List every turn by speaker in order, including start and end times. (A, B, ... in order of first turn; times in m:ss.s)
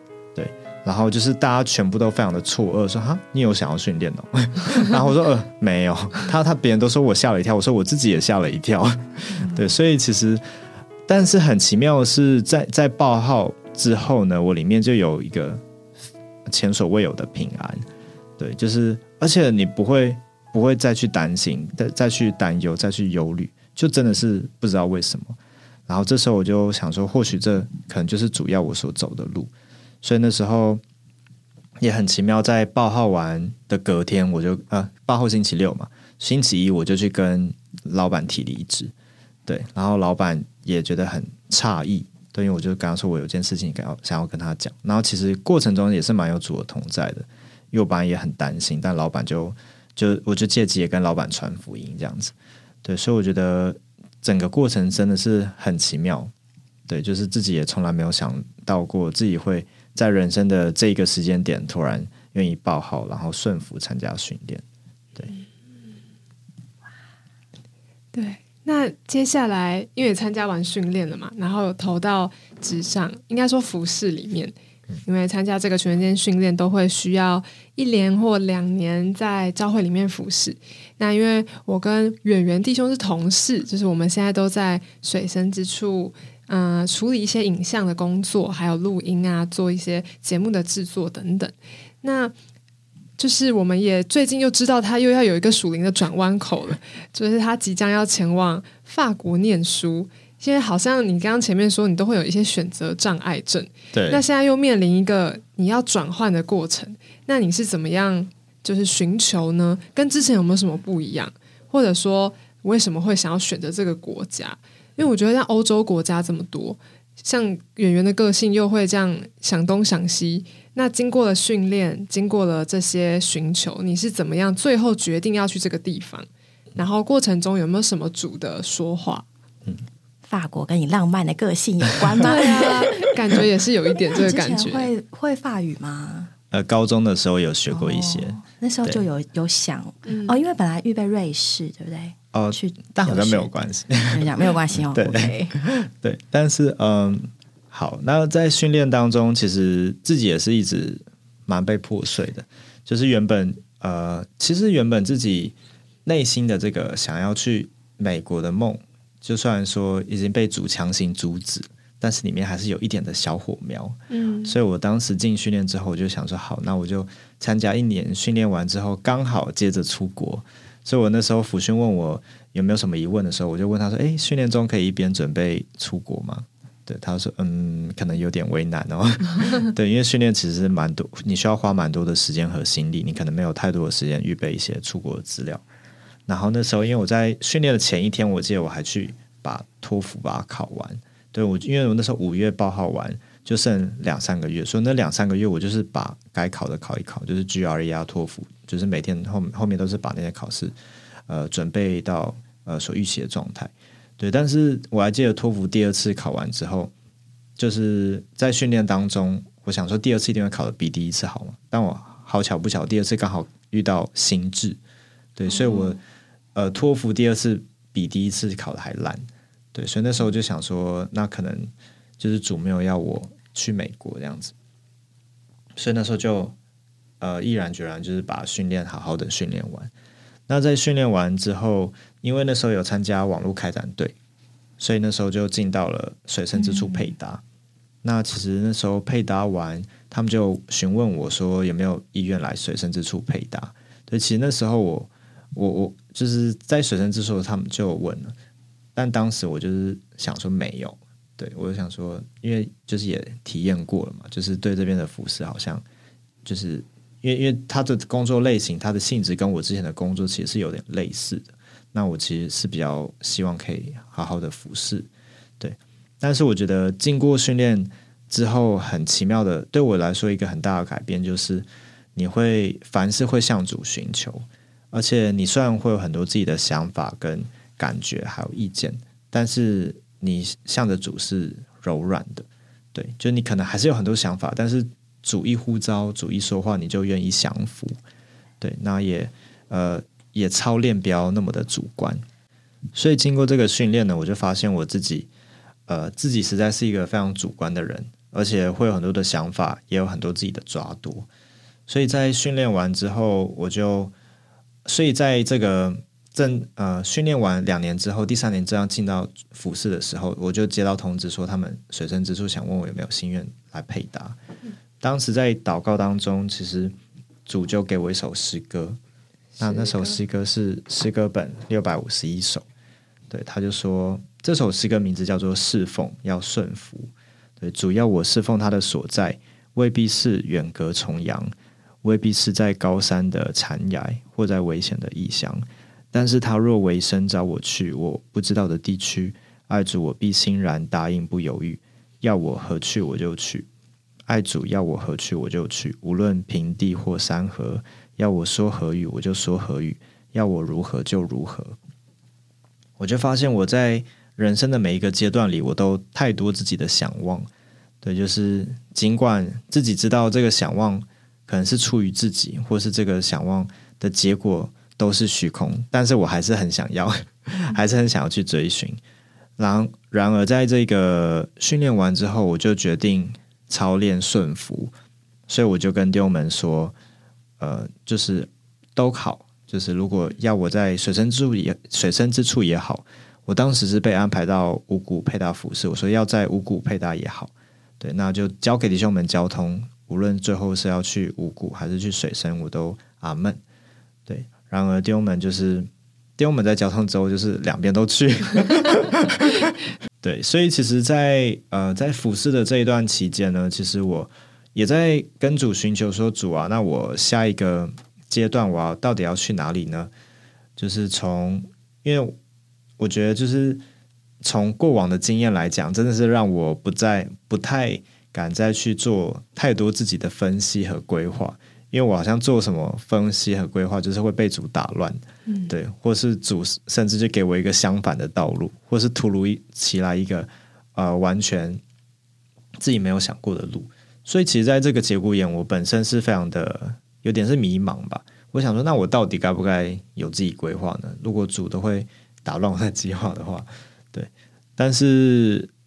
0:00.4-0:10.4 A
0:11.1-0:15.6 A
0:16.5-0:17.8 A
0:18.4-0:25.4 A
0:25.9-0:29.5 A
0:30.0-0:30.8 A
0:31.8-0:38.9 A
0:39.4-0:52.3 A
0:52.8-0:56.3 A
0:56.9-1:04.6 A
1:08.1-1:14.5 B
1:15.0-1:32.3 B
1:33.2-2:09.2 B
1:43.9-1:44.2 A
2:10.3-2:13.1 C
2:12.2-2:14.9 B
2:14.1-2:16.3 C
2:16.5-2:19.0 A
2:17.7-2:23.5 C
2:22.3-3:05.6 A
2:24.1-2:25.5 C
2:44.1-2:44.6 B
3:06.3-3:20.7 A
3:21.3-3:26.9 A
3:27.6-3:34.8 A
3:35.4-3:36.0 A
3:35.6-3:35.9 C
3:36.5-3:44.5 A
3:45.8-3:46.6 A
3:47.2-3:49.9 A
3:50.5-3:54.1 A
3:54.8-3:57.4 A
3:56.6-3:57.1 C
3:58.0-4:08.3 A
4:09.0-4:15.8 A
4:16.4-4:25.1 A
4:25.6-4:47.9 A
4:48.6-4:52.2 A
4:52.9-4:55.3 A
4:55.9-5:01.3 A
5:01.9-5:04.1 A
5:04.8-5:14.4 A
5:15.0-5:16.9 A
5:17.4-5:19.0 A
5:19.6-5:20.2 B
5:19.6-5:22.6 A
5:23.3-5:43.7 A
5:44.3-5:51.8 A
5:53.0-5:57.5 A
5:58.0-6:09.0 A
6:09.6-6:14.9 A
6:15.5-6:16.9 A
6:17.6-6:33.6 A
6:34.2-6:50.1 A
6:50.8-6:52.4 A
6:53.0-6:53.8 A
6:54.4-7:11.8 A
7:12.8-7:25.7 A